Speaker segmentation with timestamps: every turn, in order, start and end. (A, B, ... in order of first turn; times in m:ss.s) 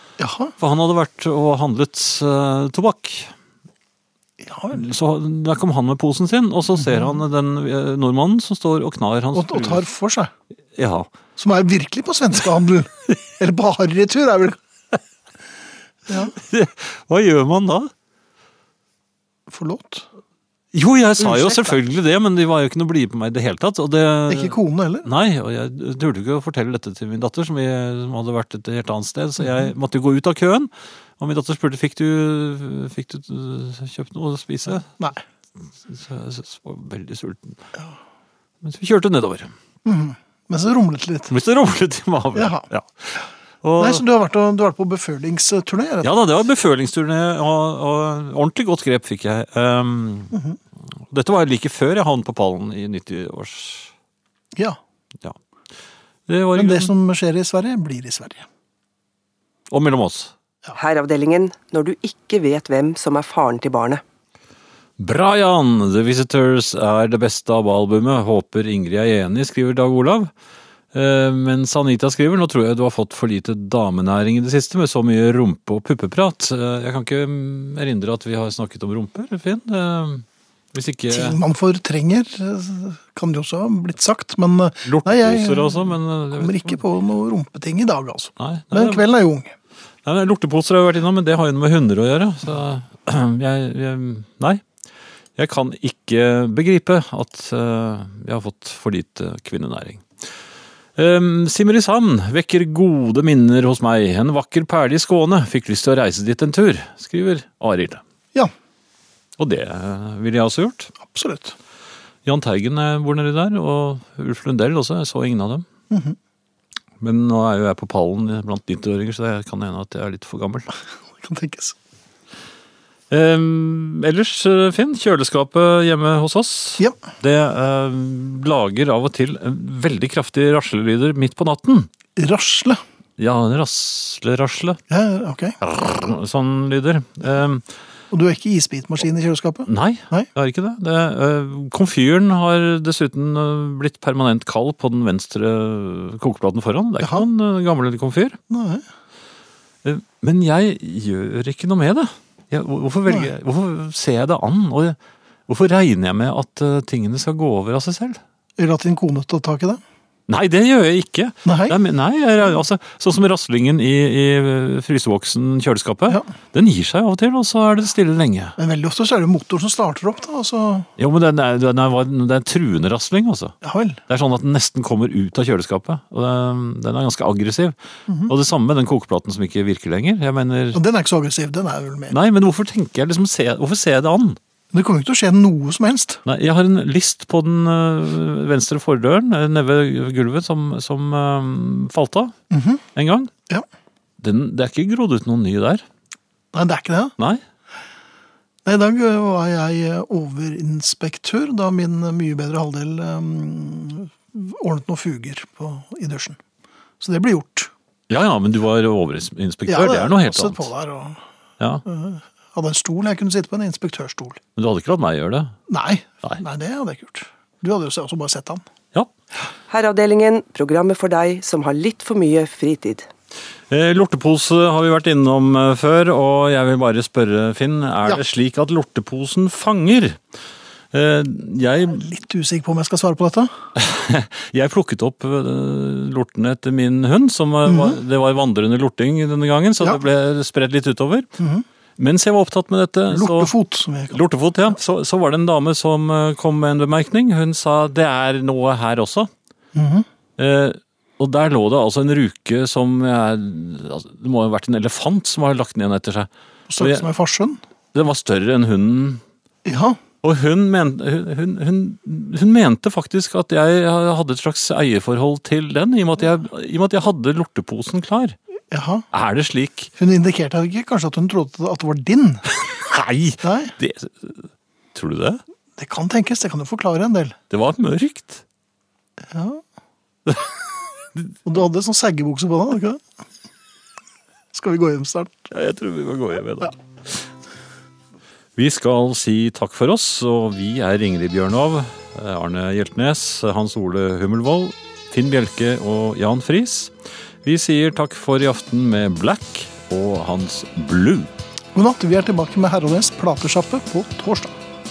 0:00.2-0:00.6 A
0:00.6-0:03.3 B
0:04.4-0:04.9 A
0:04.7-0:09.9 B
0:06.8-0:07.2 A
0:09.3-0:10.3 A
0:10.8-0:11.1 B
0:11.4-0:14.6 A
0:16.1-0:16.4 A
0:16.3-0:17.9 B
0:19.5-0:20.1 A
0:20.7-0:34.9 B
0:21.2-0:21.8 A
0:24.3-0:25.1 A
0:29.4-0:29.7 A
0:35.9-0:37.6 B
0:38.6-0:39.5 B
0:39.8-0:41.3 A
0:41.3-0:44.0 B
0:42.3-0:42.7 A
0:43.8-0:46.1 A
0:46.0-0:50.4 B
0:50.3-0:50.6 A
0:51.1-0:53.9 B
0:56.3-0:56.9 B
0:56.6-0:58.5 A
0:59.7-1:00.3 B
1:00.8-1:04.0 C
1:05.0-1:10.3 B
1:10.9-1:21.4 B
1:21.1-1:29.6 A
1:24.9-1:26.8 B
1:28.4-1:29.0 B
1:30.0-1:34.6 B
1:35.4-1:40.0 B
1:41.0-1:48.0 B
1:49.4-1:50.9 B
1:51.0-1:51.6 A
1:52.2-1:55.7 B
1:55.9-1:56.2 A
1:57.0-2:00.7 B
2:01.2-2:01.8 A
2:03.1-2:11.9 B
2:12.2-2:12.8 A
2:13.2-2:14.8 B
2:14.9-2:15.6 A
2:15.6-2:17.6 B
2:18.1-2:20.3 A
2:19.7-2:28.4 B
2:27.0-2:27.3 A
2:28.5-2:28.8 A
2:29.8-2:35.0 B
2:33.1-2:33.3 A
2:35.5-2:38.2 B
2:38.6-2:39.8 A
2:40.3-2:48.6 B
2:41.5-2:41.8 A
2:48.6-2:50.9 A
2:51.0-2:53.6 B
2:53.6-2:54.0 A
2:54.1-2:57.8 B
2:58.3-3:00.8 B
3:00.7-3:02.2 A
3:02.1-3:04.4 B
3:04.7-3:06.2 A
3:06.3-3:12.3 B
3:12.5-3:12.8 A
3:13.0-3:13.3 B
3:14.2-3:15.8 B
3:16.5-3:17.1 A
3:18.6-3:26.4 A
3:27.0-3:27.7 A
3:28.1-3:30.7 B
3:29.7-3:31.2 A
3:31.9-3:34.4 A
3:34.6-3:35.5 B
3:35.7-3:38.6 A
3:39.7-3:43.1 C
3:43.7-3:50.2 B
3:50.9-3:52.1 B
3:51.9-3:53.5 A
3:53.8-4:01.3 B
3:57.6-3:58.0 A
4:01.4-4:01.6 A
4:02.0-4:03.5 B
4:03.1-4:04.2 A
4:04.1-4:09.3 B
4:09.8-4:10.1 A
4:10.4-4:17.1 B
4:16.7-4:17.6 A
4:17.9-4:19.2 B
4:19.6-4:20.0 A
4:20.2-4:28.4 B
4:28.7-4:29.0 A
4:29.1-4:29.9 B
4:30.0-4:32.4 A
4:32.7-4:35.4 B
4:33.4-4:33.8 A
4:35.8-4:37.4 A
4:37.5-4:38.4 B
4:39.2-4:39.6 A
4:41.4-4:43.0 A
4:44.5-4:45.5 A
4:45.5-4:46.7 B
4:48.6-4:56.9 B
4:57.4-5:01.3 B
5:01.8-5:04.6 A